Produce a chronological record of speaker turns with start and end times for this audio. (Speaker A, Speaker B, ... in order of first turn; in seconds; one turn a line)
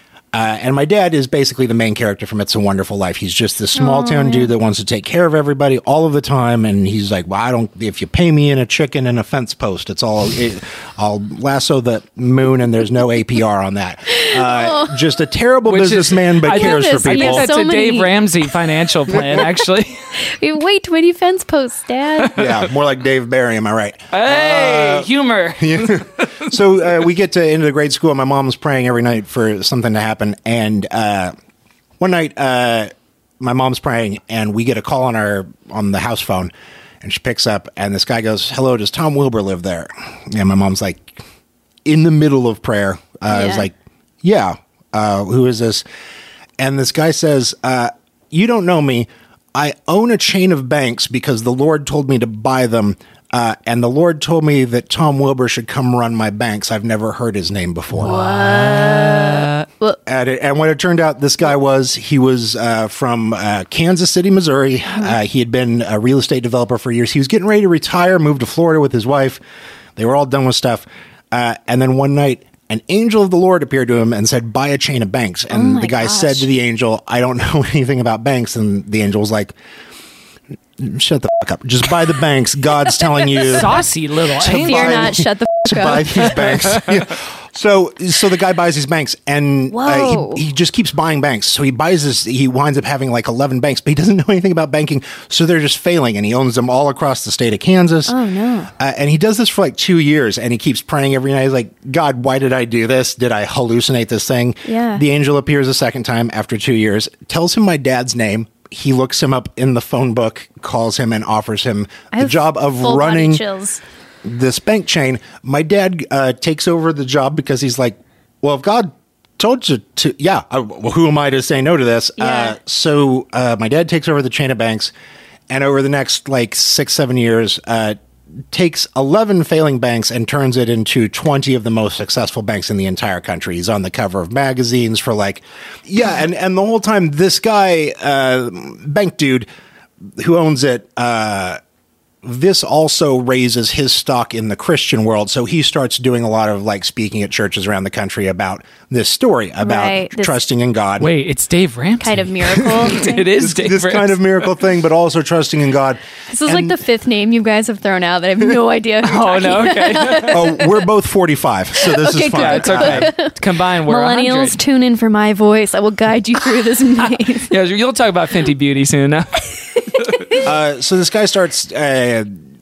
Speaker A: 0.3-17.5
Speaker B: 3.8-4.5
Speaker B: 14.2-15.0
Speaker C: 15.7-20.1
Speaker B: 16.4-18.2
Speaker B: 20.2-22.4
Speaker A: 22.4-31.3
Speaker C: 24.1-26.5
Speaker A: 32.0-41.2
Speaker A: 41.9-45.8
Speaker B: 43.3-43.7
Speaker A: 46.6-58.3
Speaker C: 58.0-59.6
Speaker B: 58.0-60.0
Speaker A: 60.1-69.4
Speaker A: 70.0-79.5
Speaker B: 75.5-76.5
Speaker A: 80.8-83.8
Speaker C: 83.5-85.2
Speaker A: 84.4-98.1
Speaker B: 84.6-86.3
Speaker C: 86.4-86.9
Speaker B: 89.7-90.4
Speaker B: 98.1-98.7
Speaker A: 98.8-113.4
Speaker B: 104.7-105.0
Speaker B: 112.1-113.8
Speaker A: 114.2-124.9
Speaker B: 122.2-122.6
Speaker A: 125.5-128.0
Speaker A: 128.5-139.5
Speaker A: 140.2-141.6
Speaker A: 142.2-151.1
Speaker B: 149.6-150.4
Speaker C: 151.0-154.2
Speaker B: 152.0-153.3
Speaker A: 152.6-156.8
Speaker B: 156.3-160.8
Speaker C: 159.0-160.4
Speaker A: 160.2-163.1
Speaker B: 161.8-167.5
Speaker C: 162.2-164.6
Speaker C: 167.4-170.2
Speaker A: 170.4-172.4